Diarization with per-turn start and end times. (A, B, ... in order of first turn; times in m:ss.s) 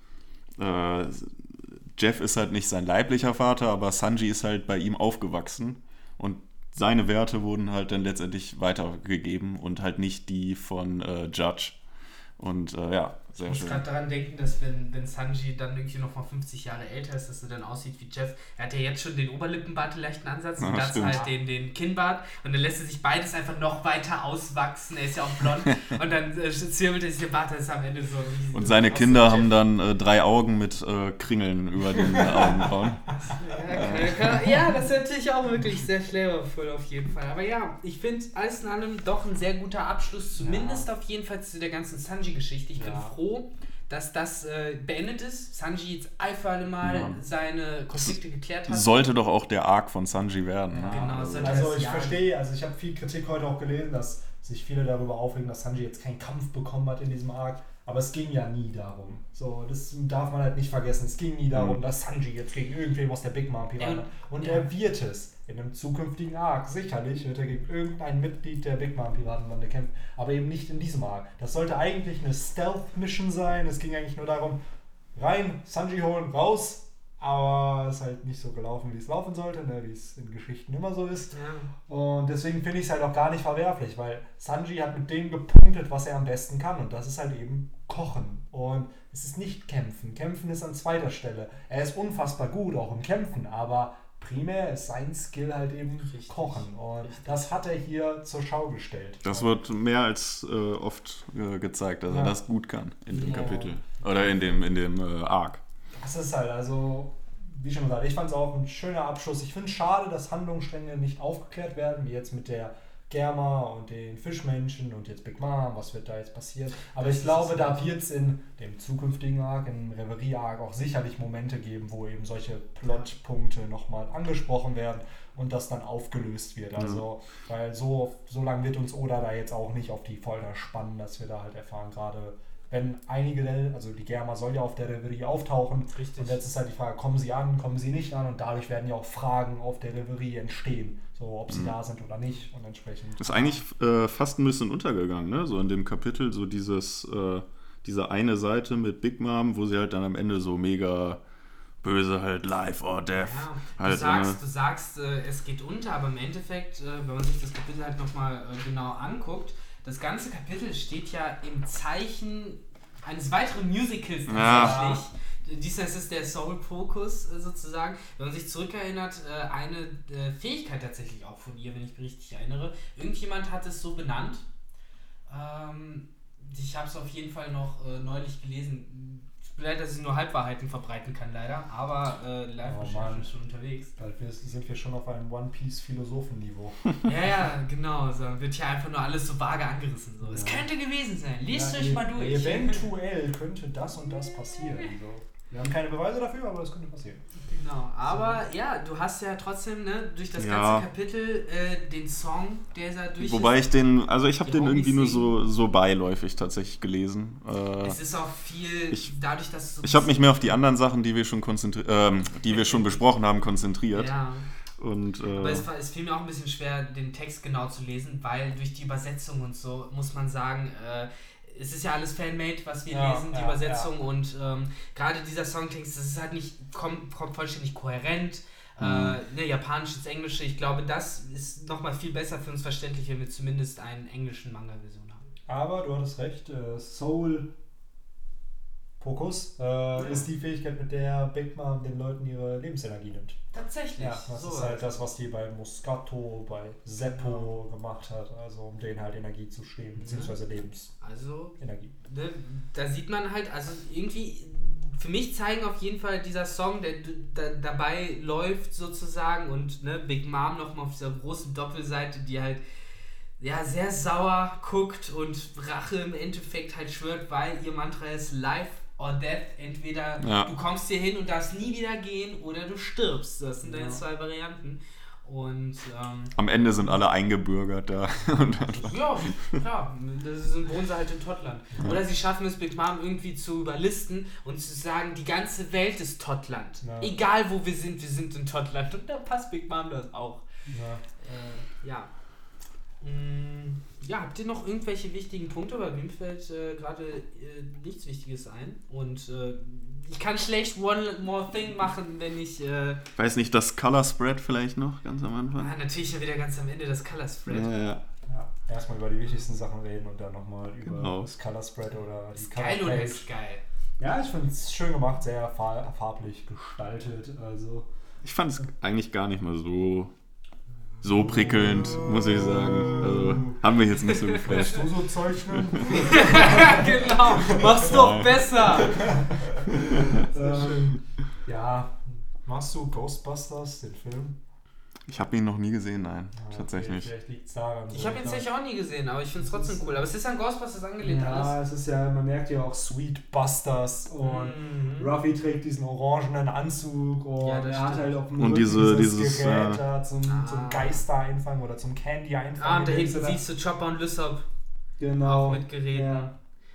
0:00.6-0:11.8 A
0:12.4-0:13.8 A
0:13.4-0:29.5 B
0:20.6-0:21.2 A
0:21.1-0:21.3 C
0:28.5-0:33.0 A
0:32.1-0:32.5 C
0:33.1-0:49.1 B
0:33.7-0:34.5 A
0:40.4-0:40.9 C
0:42.8-0:43.2 C
0:46.8-0:47.2 A
0:48.7-0:51.6 A
0:50.7-1:14.6 C
0:50.9-0:52.2 B
1:03.8-1:04.7 B
1:15.2-1:21.4 C
1:21.3-1:21.7 B
1:21.9-1:39.5 C
1:36.0-1:37.3 B
1:39.2-1:45.6 A
1:42.1-1:42.4 C
1:43.1-1:43.7 B
1:43.1-1:44.5 C
1:46.0-2:23.6 C
1:56.9-1:57.9 B
2:15.9-2:16.4 B
2:21.5-2:21.8 A
2:23.2-2:31.2 A
2:31.8-2:34.4 A
2:33.2-2:54.4 B
2:44.3-2:44.9 A
2:44.4-2:45.0 C
2:55.3-3:03.9 B
3:02.6-3:03.3 C
3:04.0-3:06.9 C
3:07.0-3:12.9 B
3:11.5-3:17.2 C
3:17.5-3:23.6 B
3:18.1-3:18.4 C
3:20.4-3:20.9 A
3:23.2-3:28.0 A
3:24.4-3:25.3 B
3:27.8-3:30.4 B
3:29.8-3:34.1 A
3:32.5-3:33.0 B
3:33.9-3:34.5 B
3:34.8-3:35.6 A
3:35.4-3:55.2 B
3:42.9-3:43.9 C
3:48.8-3:49.2 A
3:55.5-3:57.5 C
3:59.0-4:03.4 C
4:00.0-4:00.2 B
4:03.5-4:05.0 B
4:04.0-4:10.9 C
4:07.0-4:07.5 B
4:10.0-4:10.4 B
4:11.0-4:22.6 B
4:11.6-4:11.9 C
4:23.4-4:36.3 B
4:30.2-4:30.5 A
4:33.6-4:34.0 C
4:36.4-4:39.6 A
4:38.8-4:50.5 B
4:46.8-4:47.1 C
4:50.7-4:51.0 C
4:51.2-4:52.1 B
4:53.0-5:03.0 B
5:03.2-5:05.8 A
5:05.6-5:07.7 B
5:07.5-5:08.0 A
5:08.3-5:13.3 C
5:10.8-5:11.3 A
5:12.4-5:13.6 B
5:14.0-5:17.9 C
5:18.2-5:20.1 A
5:21.0-5:25.8 A
5:21.2-5:23.6 C
5:24.0-5:24.8 B
5:24.4-5:27.8 C
5:25.9-5:29.2 B
5:27.8-5:28.9 A
5:28.9-5:34.4 C
5:29.7-5:30.3 A
5:35.1-5:37.1 A
5:36.4-5:38.4 C
5:37.9-5:41.5 B
5:39.4-5:40.0 C
5:41.0-5:53.4 C
5:44.2-5:45.1 B
5:47.4-5:48.2 B
5:48.4-5:49.8 A
5:50.2-5:51.0 B
5:52.6-5:54.4 B
5:55.0-5:56.3 C
5:55.2-5:56.3 B